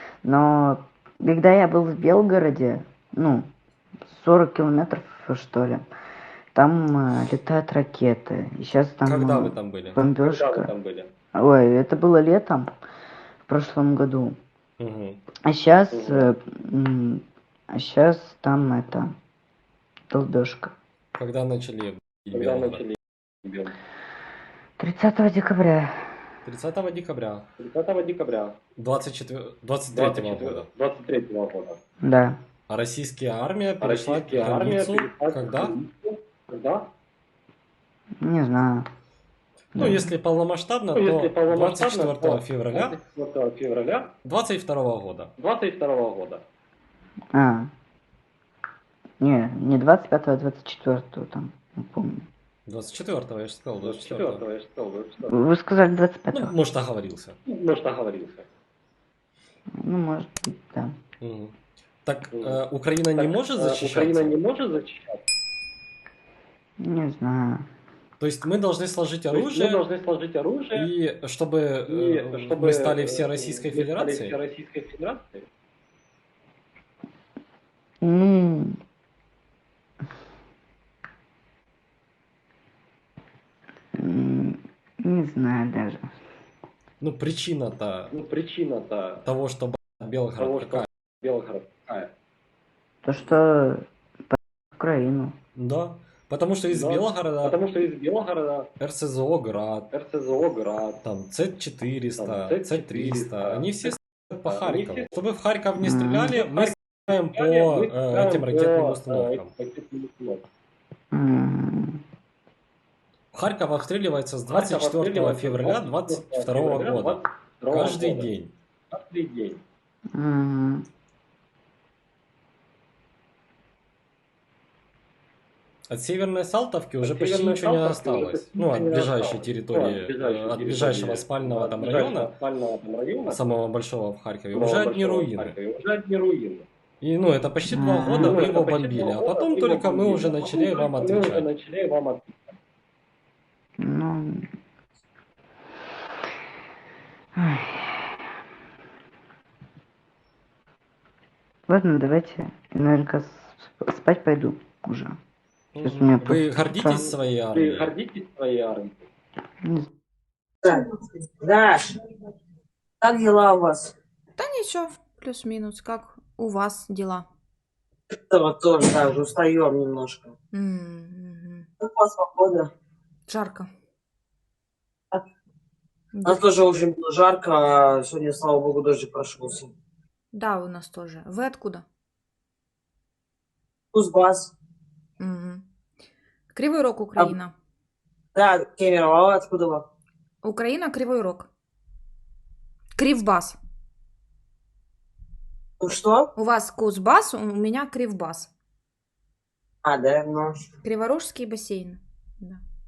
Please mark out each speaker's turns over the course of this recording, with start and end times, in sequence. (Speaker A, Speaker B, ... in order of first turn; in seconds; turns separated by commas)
Speaker A: 0.2-3.5, Speaker A: 4.1-5.9, Speaker A: 6.5-10.7, Speaker B: 9.1-10.0, Speaker C: 10.2-11.1, Speaker A: 11.4-12.7, Speaker A: 13.5-14.4, Speaker B: 14.8-15.2, Speaker A: 15.5-19.1, Speaker C: 15.9-16.3, Speaker A: 20.1-20.8, Speaker B: 21.1-22.8, Speaker C: 22.3-23.7, Speaker A: 24.8-26.1, Speaker B: 26.4-27.5, Speaker C: 27.6-28.6, Speaker B: 28.8-30.7, Speaker C: 29.9-31.8, Speaker A: 32.0-32.4, Speaker B: 32.7-35.8, Speaker C: 33.8-36.9, Speaker A: 38.2-38.9, Speaker B: 39.7-43.0, Speaker A: 39.8-40.1, Speaker C: 41.0-44.1, Speaker B: 44.2-45.3, Speaker C: 45.4-46.4, Speaker A: 47.3-47.7, Speaker A: 49.2-52.3, Speaker B: 52.7-54.4, Speaker C: 53.8-55.3, Speaker A: 55.3-56.5, Speaker B: 56.3-57.4, Speaker C: 57.5-58.4, Speaker A: 59.8-61.0, Speaker B: 61.2-64.3, Speaker C: 62.3-62.6, Speaker C: 63.2-65.2, Speaker A: 66.8-67.7, Speaker B: 68.2-69.8, Speaker C: 69.3-70.9, Speaker B: 70.7-74.4, Speaker C: 71.9-75.4, Speaker A: 78.0-78.8, Speaker A: 84.0-86.1, Speaker B: 87.0-88.1, Speaker C: 88.1-89.2, Speaker B: 89.2-90.8, Speaker C: 90.4-92.1, Speaker A: 93.0-95.3, Speaker B: 95.5-97.6, Speaker C: 96.7-98.7, Speaker B: 98.8-99.9, Speaker C: 99.9-101.0, Speaker B: 101.0-109.5, Speaker C: 102.2-105.1, Speaker A: 105.8-106.4, Speaker C: 106.3-110.4, Speaker A: 111.1-112.0, Speaker B: 113.3-118.5, Speaker C: 114.5-118.3, Speaker C: 118.9-119.6, Speaker A: 120.1-120.8, Speaker B: 125.9-132.3, Speaker C: 127.0-133.4, Speaker B: 133.3-135.6, Speaker C: 134.5-136.7, Speaker B: 137.0-141.5, Speaker A: 137.7-138.4, Speaker C: 138.2-142.4, Speaker A: 143.8-144.5, Speaker A: 147.4-148.1, Speaker A: 151.7-155.2, Speaker B: 155.8-157.9, Speaker A: 155.8-157.1, Speaker C: 157.5-159.1, Speaker D: 160.6-161.9, Speaker D: 163.0-163.9, Speaker E: 164.4-167.3, Speaker D: 168.3-170.3, Speaker E: 170.5-171.7, Speaker D: 171.8-172.7, Speaker E: 173.3-173.7, Speaker E: 176.1-176.6, Speaker D: 176.2-179.7, Speaker E: 180.3-181.8, Speaker D: 183.9-184.5, Speaker E: 185.2-185.7, Speaker E: 186.5-187.5, Speaker D: 188.3-189.8, Speaker E: 190.4-191.5, Speaker E: 193.0-193.6, Speaker D: 195.8-196.3, Speaker E: 196.4-198.5, Speaker D: 199.8-200.7, Speaker E: 200.8-202.6